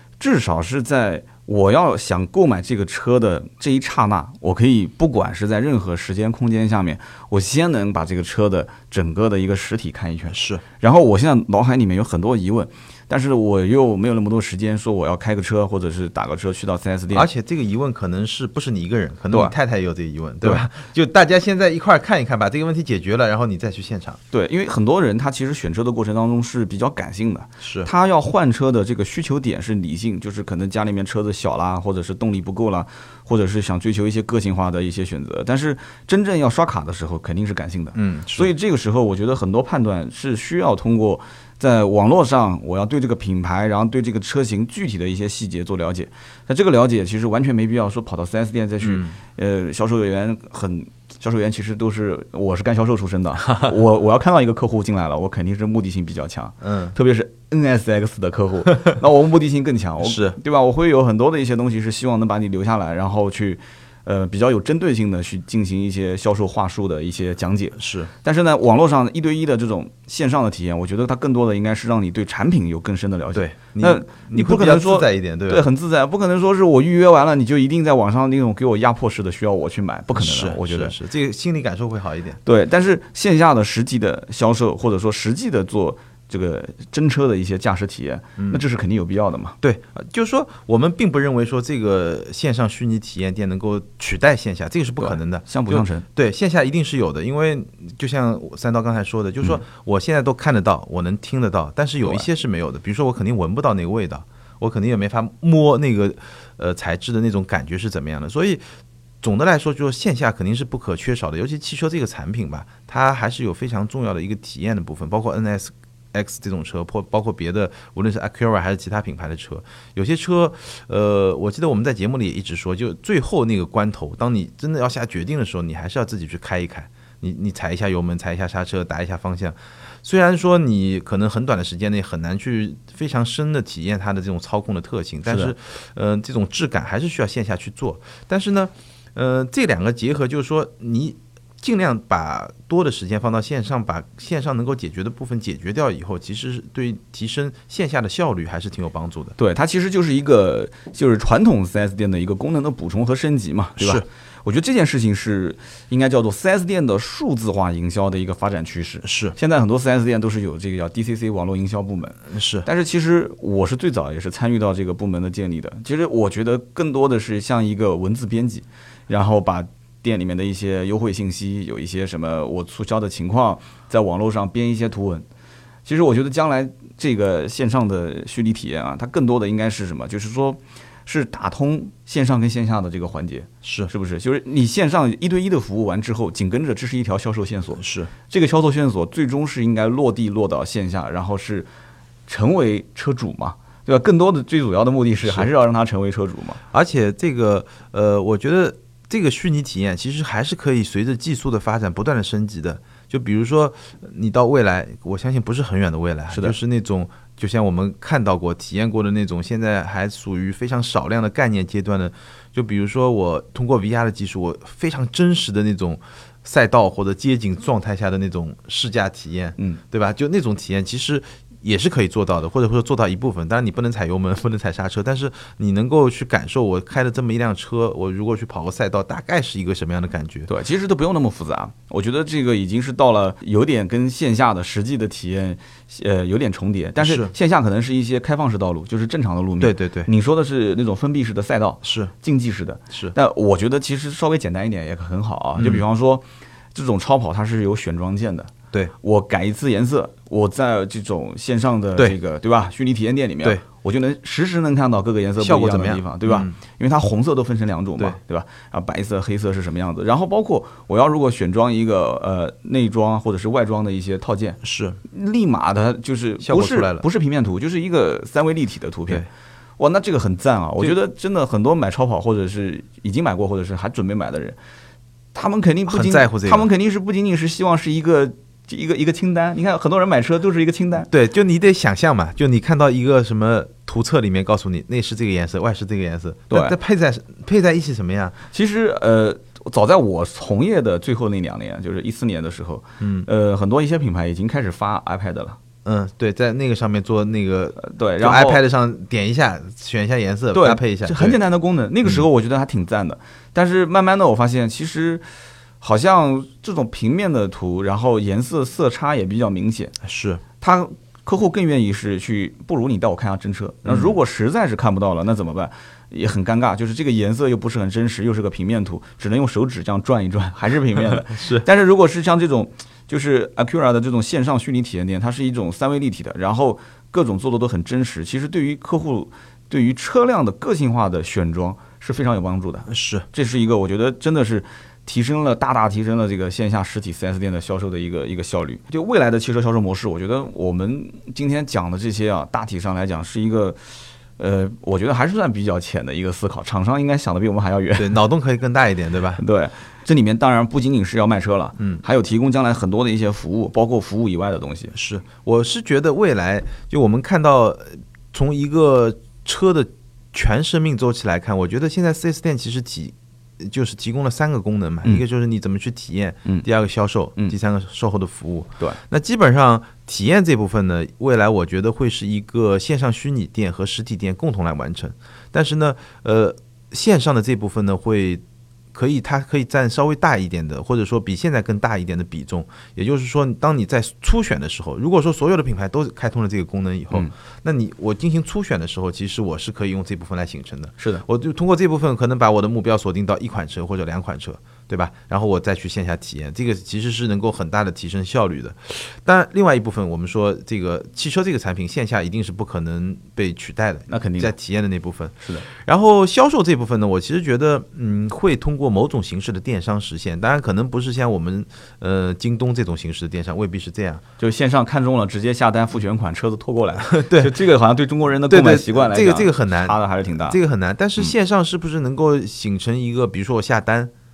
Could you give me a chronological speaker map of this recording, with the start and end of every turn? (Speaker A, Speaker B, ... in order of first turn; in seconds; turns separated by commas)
Speaker A: 0.2-17.3, Speaker B: 10.3-10.6, Speaker B: 17.1-24.2, Speaker A: 24.3-81.0, Speaker B: 27.6-27.9, Speaker B: 38.0-38.5, Speaker B: 48.8-49.1, Speaker B: 56.6-56.9, Speaker B: 60.0-60.4, Speaker B: 67.8-68.1, Speaker B: 73.3-75.6, Speaker B: 80.1-82.4, Speaker A: 82.5-89.6, Speaker B: 89.6-108.6, Speaker A: 95.0-96.0, Speaker B: 109.2-149.3, Speaker A: 135.3-135.5, Speaker A: 149.4-175.2, Speaker B: 153.8-154.1, Speaker B: 159.0-159.3, Speaker B: 162.3-162.7, Speaker A: 175.9-191.7, Speaker B: 183.6-183.9, Speaker B: 187.8-188.1, Speaker A: 192.3-196.6, Speaker B: 196.7-230.5, Speaker A: 230.5-269.3, Speaker B: 237.0-237.3, Speaker B: 239.6-240.1, Speaker B: 241.8-242.1, Speaker B: 242.9-243.2, Speaker B: 245.6-245.8, Speaker B: 255.4-256.6, Speaker B: 264.6-265.0, Speaker B: 266.4-267.1, Speaker A: 269.8-274.6, Speaker A: 275.3-281.1, Speaker B: 275.9-276.7, Speaker B: 281.1-288.4, Speaker A: 286.5-286.8, Speaker A: 288.5-295.6, Speaker B: 293.0-293.3, Speaker B: 295.9-301.4, Speaker A: 297.8-298.6, Speaker A: 300.5-305.2, Speaker A: 305.8-309.9, Speaker B: 310.0-310.4, Speaker A: 310.6-343.8, Speaker B: 313.9-314.1, Speaker B: 321.3-321.7, Speaker B: 332.9-333.2, Speaker A: 344.4-348.2, Speaker B: 348.0-349.4, Speaker A: 349.4-354.9, Speaker B: 351.8-352.0, Speaker B: 354.9-378.4, Speaker B: 378.9-414.2, Speaker A: 391.0-391.2, Speaker A: 404.1-404.5, Speaker A: 414.4-420.6, Speaker B: 417.1-417.6, Speaker B: 418.5-424.1